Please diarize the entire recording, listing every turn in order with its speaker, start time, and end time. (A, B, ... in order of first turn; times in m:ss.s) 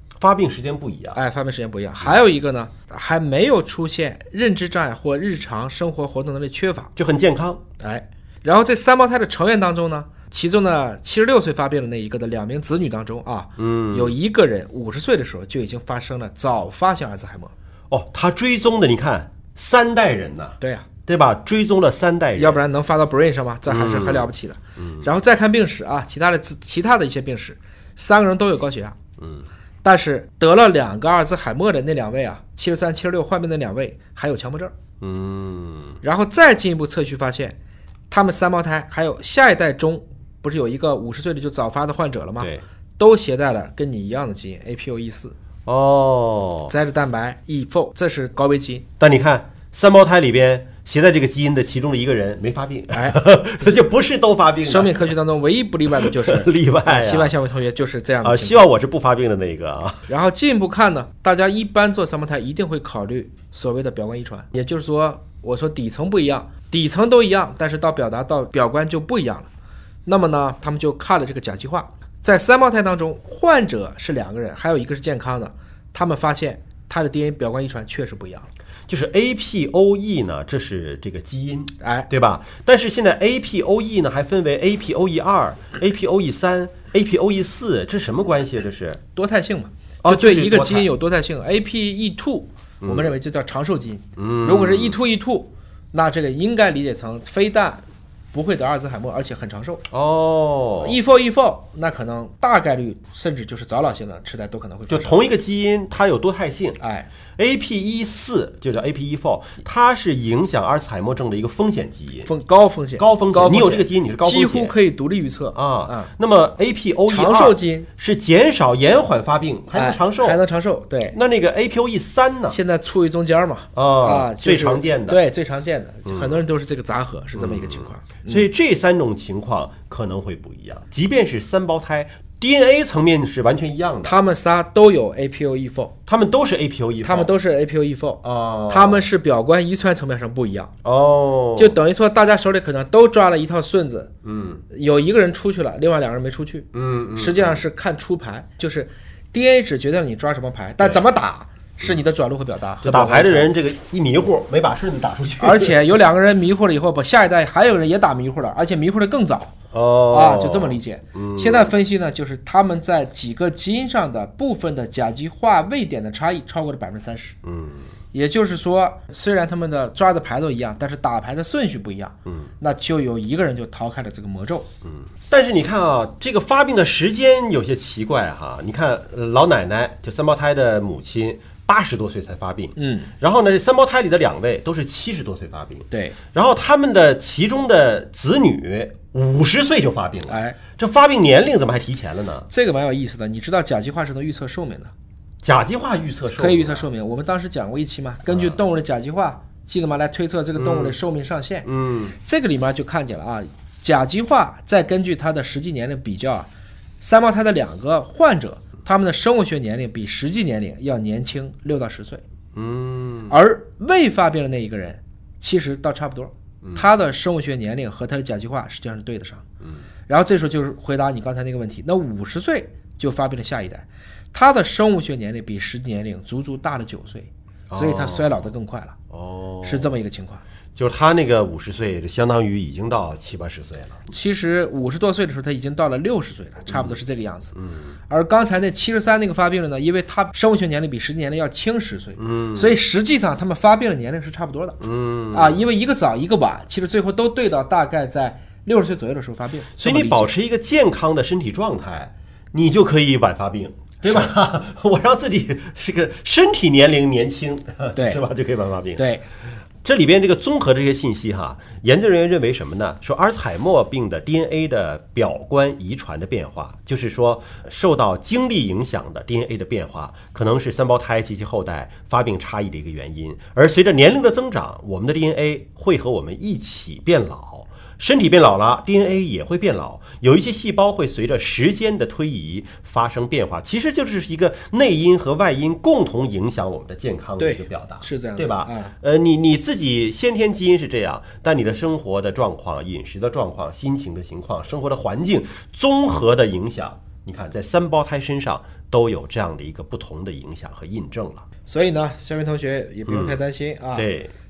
0:00.2-0:01.2 A
0:01.1-0:06.9 B
0:07.0-0:07.6 A
0:07.8-0:17.5 B
0:13.6-0:14.2 A
0:17.9-0:22.6 A
0:20.6-0:20.9 B
0:22.4-0:29.0 B
0:23.7-0:25.1 A
0:29.2-0:29.5 A
0:29.8-0:34.7 B
0:35.0-0:36.0 A
0:36.0-0:37.6 B
0:38.1-0:45.3 B
0:45.6-0:46.7 A
0:46.7-0:48.8 B
0:49.0-0:55.1 A
0:52.9-0:53.8 B
0:54.6-0:58.6 B
0:55.9-0:57.3 A
0:58.2-1:00.0 A
1:00.1-1:09.5 B
1:10.0-1:18.5 B
1:18.9-1:29.0 A
1:21.8-1:22.1 B
1:29.1-1:39.8 B
1:30.0-1:30.9 A
1:32.8-1:33.1 A
1:34.2-1:35.0 A
1:39.9-1:41.0 A
1:40.8-1:45.2 B
1:44.9-1:46.8 A
1:46.8-1:47.1 B
1:47.4-1:52.3 A
1:52.2-1:56.1 B
1:53.0-1:54.7 A
1:55.5-2:00.4 A
1:57.1-1:57.9 B
1:59.7-2:01.2 B
2:01.1-2:02.6 A
2:02.5-2:08.4 B
2:03.7-2:05.2 A
2:06.0-2:06.4 A
2:07.4-2:14.2 A
2:14.0-2:15.9 B
2:16.1-2:17.3 A
2:17.0-2:20.7 B
2:18.2-2:19.0 A
2:20.8-2:21.8 A
2:21.6-2:24.1 B
2:24.2-2:24.6 A
2:24.7-2:33.5 B
2:26.7-2:27.6 A
2:32.8-2:35.8 A
2:35.4-2:39.6 B
2:39.7-2:41.7 A
2:40.1-2:47.4 B
2:47.4-2:47.8 A
2:48.1-2:54.7 B
2:52.2-2:52.5 A
2:54.8-3:12.5 A
3:02.8-3:03.1 B
3:05.9-3:06.2 B
3:10.3-3:10.6 B
3:12.5-3:14.9 B
3:15.4-3:16.8 A
3:16.4-3:21.7 B
3:18.3-3:18.6 A
3:20.5-3:21.0 A
3:21.6-3:22.1 A
3:22.2-3:26.5 B
3:27.0-3:32.2 B
3:32.5-3:33.4 A
3:33.3-3:39.4 B
3:36.6-3:36.9 A
3:40.1-3:49.0 B
3:47.7-3:48.4 A
3:49.1-3:49.9 A
3:49.6-3:50.4 B
3:50.8-3:54.0 A
3:54.1-3:57.5 B
3:56.7-3:57.0 A
3:57.5-3:57.9 A
3:58.1-4:04.8 B
4:02.2-4:02.8 A
4:04.8-4:05.6 A
4:05.3-4:10.3 B
4:09.8-4:19.0 A
4:17.9-4:18.2 B
4:19.0-4:19.2 B
4:19.8-5:01.4 A
4:47.4-4:48.9 B
5:01.7-5:04.1 B
5:03.1-5:03.4 A
5:03.9-5:04.3 A